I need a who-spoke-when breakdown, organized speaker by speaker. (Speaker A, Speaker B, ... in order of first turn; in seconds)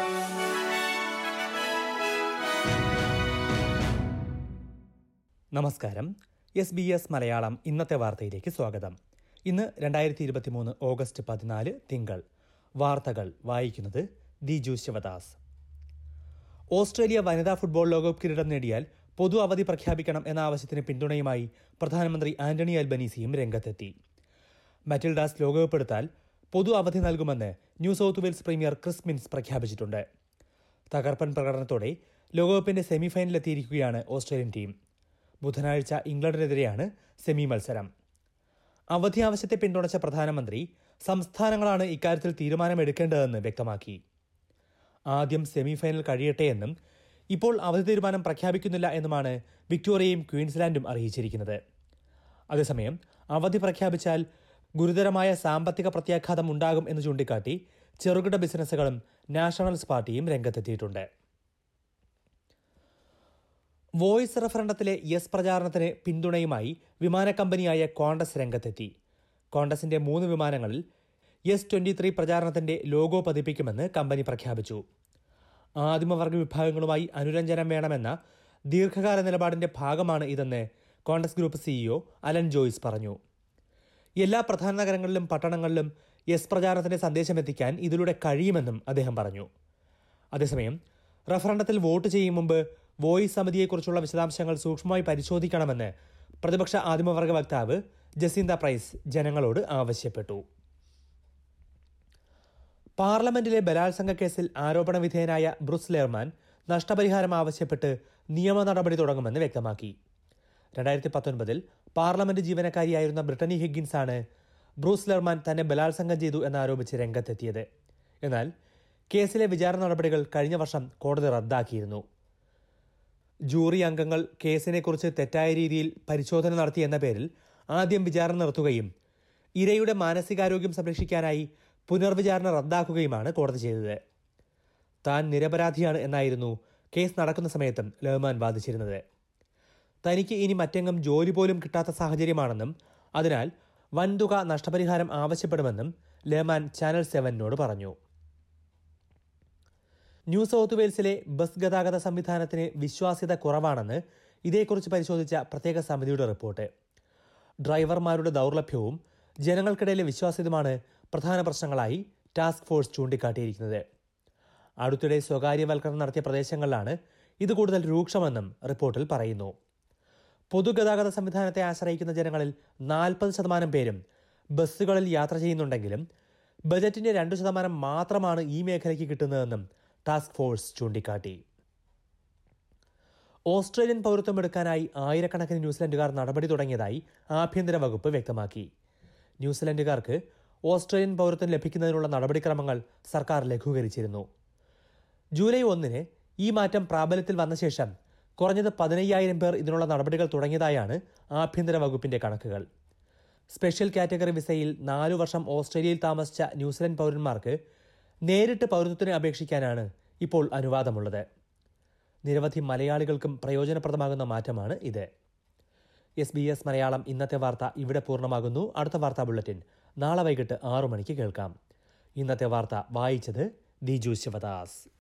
Speaker A: 5.5-8.9, 9.5-12.2, 12.8-15.4, 16.8-23.9, 24.9-30.0, 30.9-34.7, 35.4-37.9, 39.0-44.0, 45.1-46.7, 47.3-51.6, 52.5-54.2, 54.8-61.0, 64.0-68.9, 69.5-70.8, 71.5-74.8, 75.8-78.2, 78.7-83.2, 84.2-89.5, 90.3-90.8, 91.3-95.9, 96.4-100.4, 103.0-109.9, 110.8-114.2, 114.8-117.7, 119.1-122.0, 123.5-128.9, 129.6-134.0, 135.0-139.0, 140.1-147.9, 150.3-156.7, 157.7-163.8, 164.8-169.5, 170.5-174.0, 174.6-176.0, 176.7-181.4, 183.5-188.7, 189.4-194.2, 195.4-202.6, 203.5-207.6, 208.3-211.2, 212.3-215.1, 216.2-221.5, 222.2-224.8